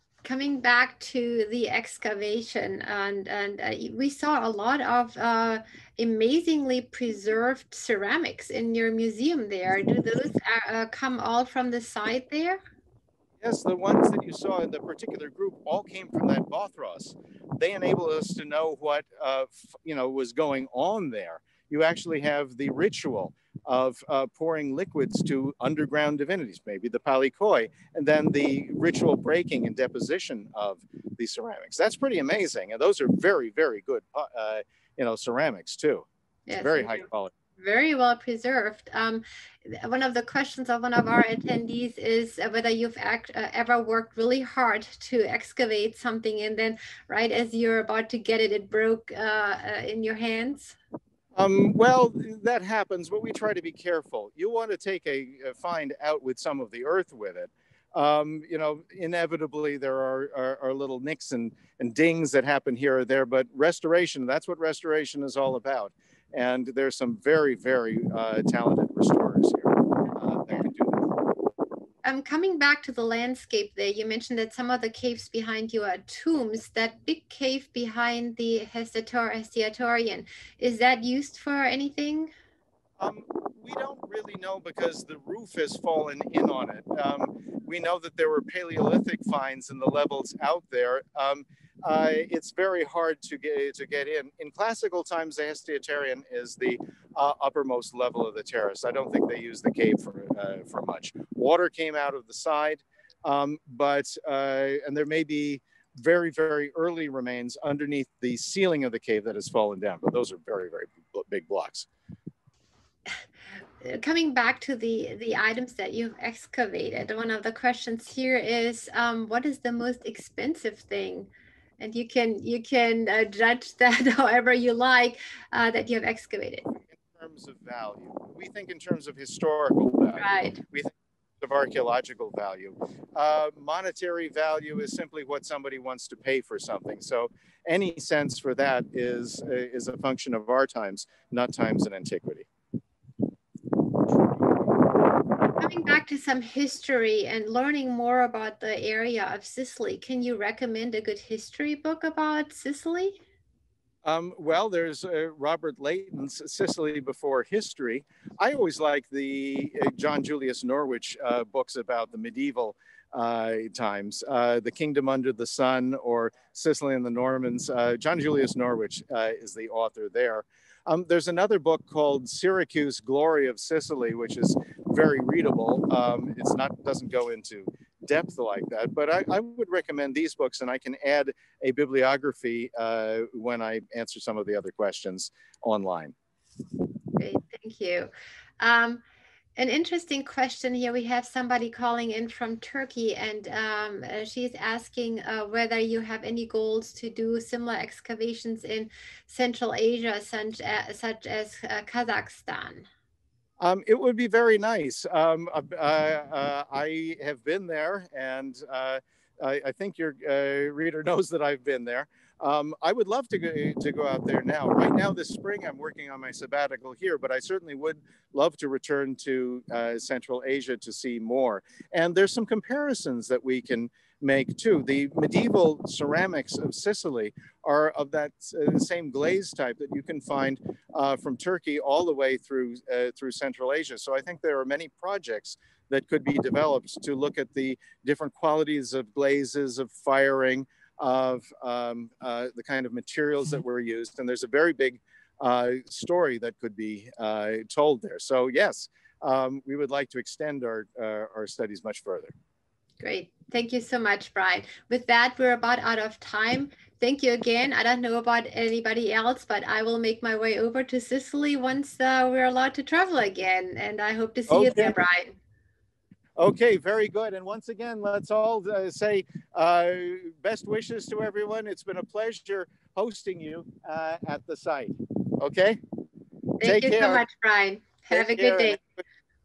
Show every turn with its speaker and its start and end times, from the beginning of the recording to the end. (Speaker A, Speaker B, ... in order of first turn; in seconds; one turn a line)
Speaker A: 0.2-12.6
Speaker B: 13.4-36.0
Speaker A: 36.5-37.0
Speaker B: 36.6-37.3
Speaker A: 37.6-50.8
Speaker B: 51.4-71.1
Speaker A: 72.0-82.3
Speaker B: 83.0-111.9
Speaker A: 113.8-126.6
Speaker B: 126.7-142.5
Speaker A: 130.2-130.6
Speaker A: 145.6-153.2
Speaker B: 154.0-186.1
Speaker A: 187.2-189.0
Speaker A: 189.6-202.9
Speaker B: 203.6-252.3
Speaker A: 253.0-265.4
Speaker B: 264.5-265.0
Speaker B: 266.4-275.8
Speaker A: 276.6-278.8
Speaker B: 276.6-277.2
Speaker B: 278.1-279.0